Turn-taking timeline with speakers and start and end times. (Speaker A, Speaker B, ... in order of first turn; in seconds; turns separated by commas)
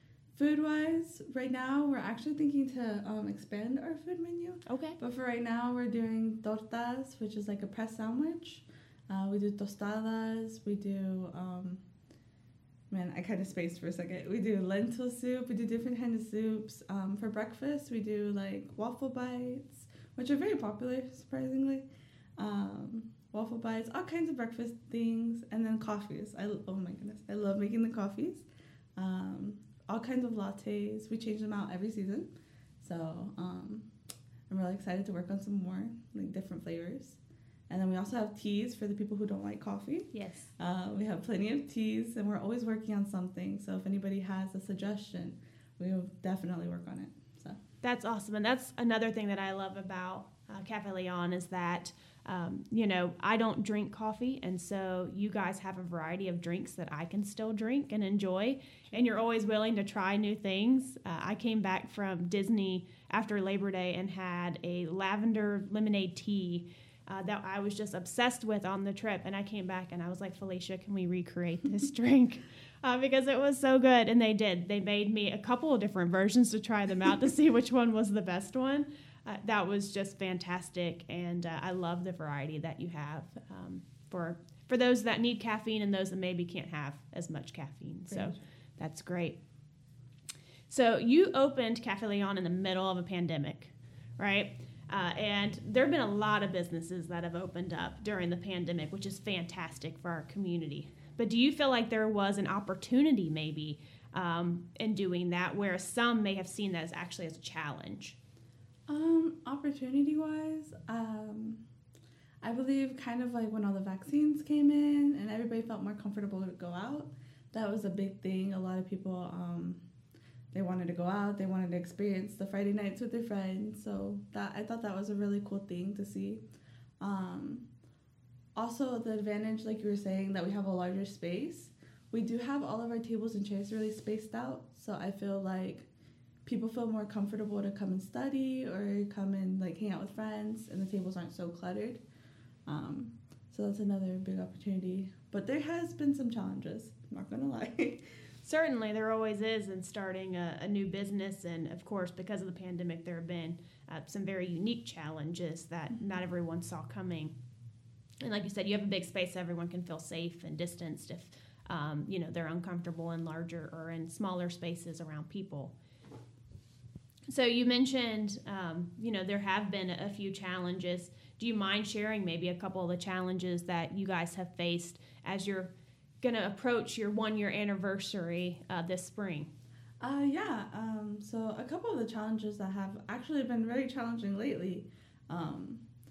Speaker A: 0.3-11.8, Speaker B: 4.7-5.0, Speaker A: 12.9-21.9, Speaker A: 22.4-32.3, Speaker A: 32.8-33.9, Speaker A: 34.5-47.6, Speaker B: 40.1-40.5, Speaker B: 47.8-89.4, Speaker A: 88.1-88.4, Speaker B: 90.7-108.2, Speaker A: 108.9-111.6, Speaker A: 112.4-119.8, Speaker A: 120.5-126.4, Speaker A: 127.0-127.7, Speaker A: 128.6-135.9, Speaker A: 136.4-142.0, Speaker A: 142.7-148.1, Speaker B: 148.4-157.3, Speaker B: 158.2-165.7, Speaker B: 167.3-179.5, Speaker A: 180.0-185.8